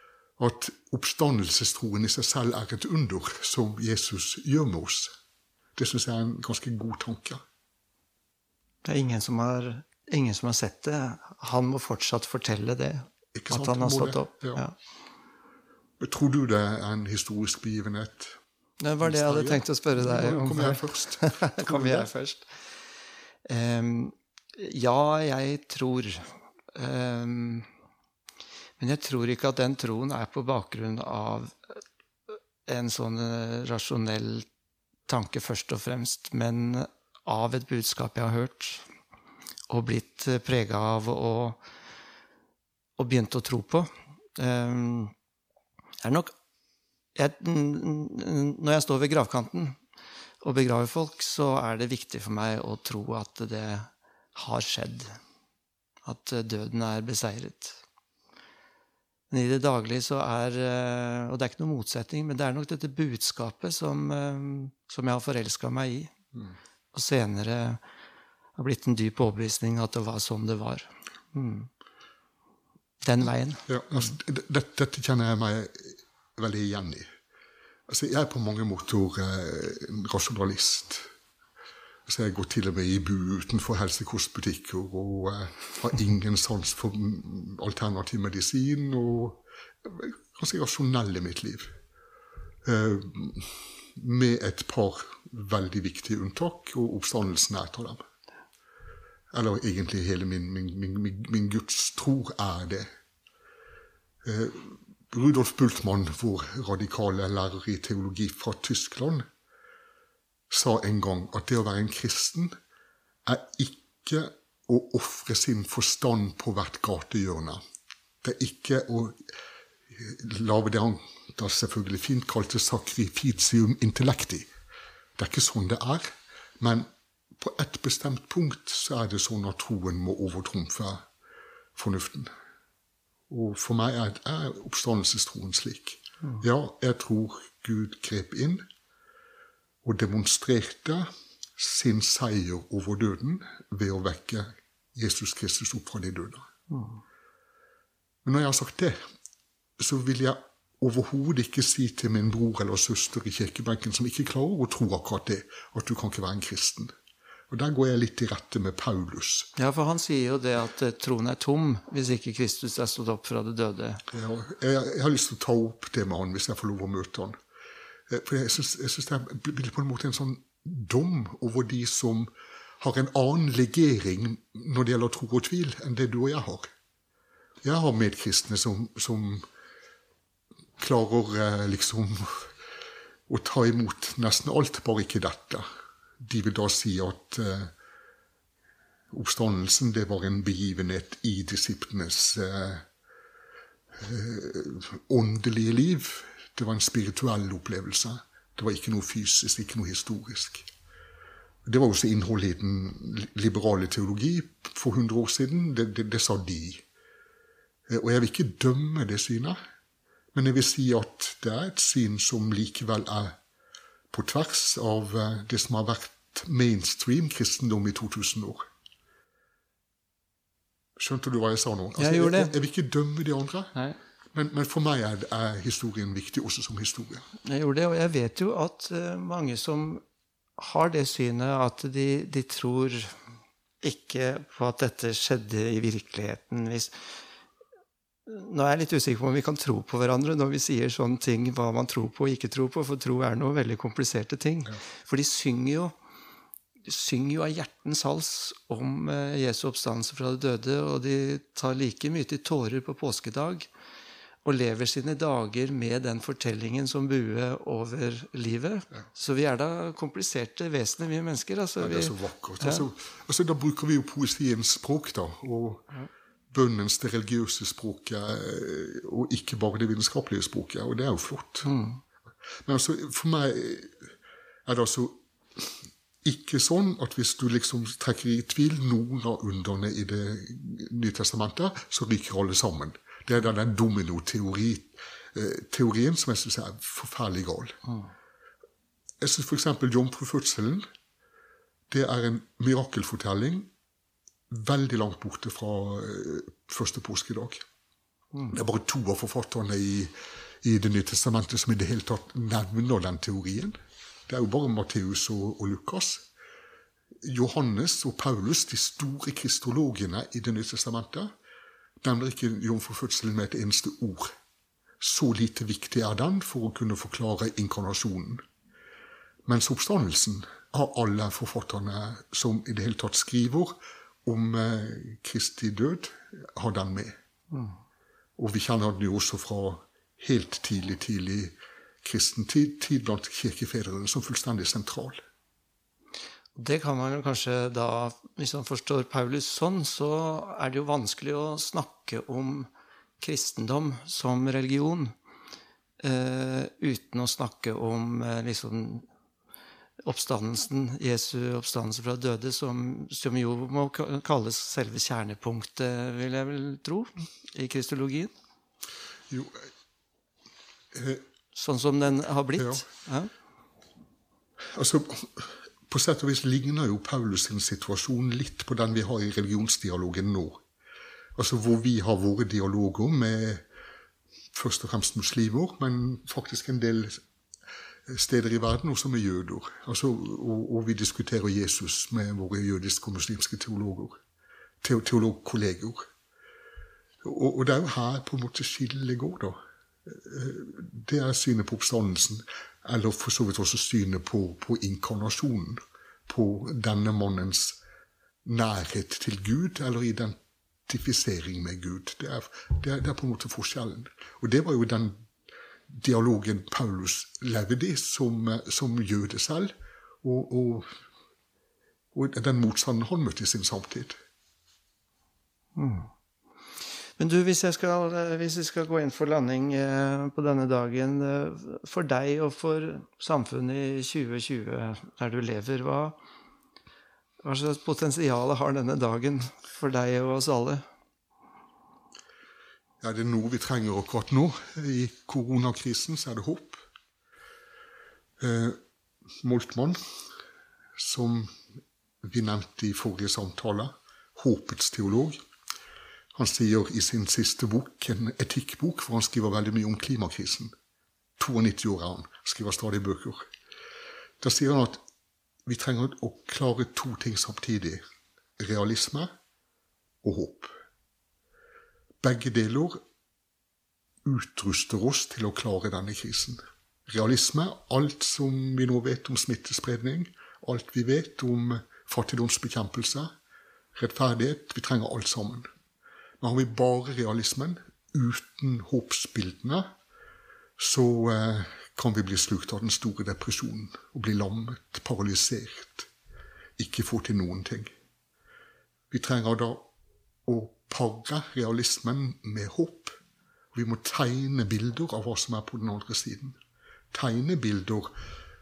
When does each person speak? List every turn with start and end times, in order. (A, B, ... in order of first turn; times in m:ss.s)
0:00.4-0:05.1 A
0:05.8-0:07.4 A
0:08.8-0:14.8 B
0:13.4-0:14.6 A
0:16.0-0:18.4 A
0:18.8-0:22.8 B
0:19.0-0:22.1 A
0:23.4-0:27.7 B
0:28.8-0:31.8 B
0:32.6-0:34.5 B
0:35.1-0:38.9 B
0:39.7-0:41.6 B
0:43.0-0:45.1 B
0:46.0-0:46.3 B
0:47.2-0:49.8 B
0:50.4-0:55.2 B
0:56.0-0:57.8 B
0:59.3-1:06.1 B
1:06.9-1:07.8 B
1:08.6-1:11.7 B
1:13.0-1:14.1 B
1:13.7-1:17.1 A
1:17.9-1:21.1 A
1:22.1-1:31.7 A
1:32.6-1:38.0 A
1:39.3-1:42.9 A
1:44.2-1:49.3 A
1:50.5-1:52.6 A
1:53.2-1:57.6 A
1:58.2-1:59.2 A
1:59.9-2:04.5 A
2:05.2-2:11.1 A
2:11.8-2:12.3 A
2:13.3-2:18.7 A
2:19.8-2:26.5 A
2:26.7-2:27.0 B
2:28.2-2:29.0 A
2:29.8-2:36.9 A
2:37.5-2:39.5 A
2:39.6-2:44.0 B
2:44.1-2:47.4 A
2:48.1-2:56.7 A
2:57.6-2:59.4 A
3:00.8-3:02.5 A
3:03.3-3:05.7 A
3:06.2-3:07.7 A
3:09.1-3:12.8 A
3:14.0-3:20.7 A
3:21.6-3:26.8 A
3:27.9-3:29.6 A
3:30.3-3:33.4 A
3:34.1-3:38.7 A
3:41.0-3:43.8 A
3:42.0-3:42.6 B
3:44.3-3:47.3 A
3:47.4-3:50.0 B
3:50.6-3:53.2 B
3:53.8-3:57.1 B
3:58.3-4:05.9 B
4:06.8-4:13.7 B
4:14.4-4:22.8 B
4:21.8-4:25.9 A
4:26.5-4:31.7 A
4:31.6-4:32.0 B
4:32.6-4:34.1 A
4:34.7-4:47.8 A
4:49.2-4:50.9 A
4:51.9-4:53.7 A
4:54.5-4:57.6 A
4:58.5-5:03.8 A
5:04.3-5:06.3 A
5:07.2-5:11.3 A
5:12.0-5:14.3 A
5:15.0-5:18.4 A
5:19.4-5:27.2 A
5:27.5-5:27.8 B
5:28.4-5:35.2 A
5:36.6-5:45.1 B
5:46.0-5:49.1 B
5:50.0-5:58.3 B
5:59.3-5:59.7 A
6:00.9-6:01.2 A
6:01.5-6:03.3 B
6:02.6-6:02.9 A
6:04.7-6:10.6 A
6:11.4-6:13.6 A
6:14.5-6:17.2 A
6:18.1-6:24.2 A
6:24.8-6:26.1 A
6:27.2-6:37.8 A
6:38.4-6:40.4 A
6:40.9-6:45.2 A
6:45.9-6:49.7 A
6:50.2-6:50.9 A
6:52.1-6:54.2 A
6:55.8-6:56.1 B
6:57.2-7:06.2 B
7:07.4-7:10.8 B
7:13.0-7:16.8 A
7:18.4-7:18.8 A
7:19.4-7:20.0 A
7:21.0-7:21.5 A
7:22.2-7:25.4 A
7:26.4-7:30.7 A
7:31.4-7:33.5 A
7:34.4-7:35.0 A
7:35.7-7:38.0 A
7:38.6-7:39.3 A
7:40.2-7:40.7 A
7:42.2-7:43.0 A
7:44.2-7:53.3 A
7:54.0-7:55.7 A
7:56.4-7:59.9 A
8:00.8-8:06.1 A
8:06.8-8:07.9 A
8:09.1-8:09.9 A
8:10.5-8:13.1 A
8:13.7-8:16.6 A
8:17.1-8:18.1 A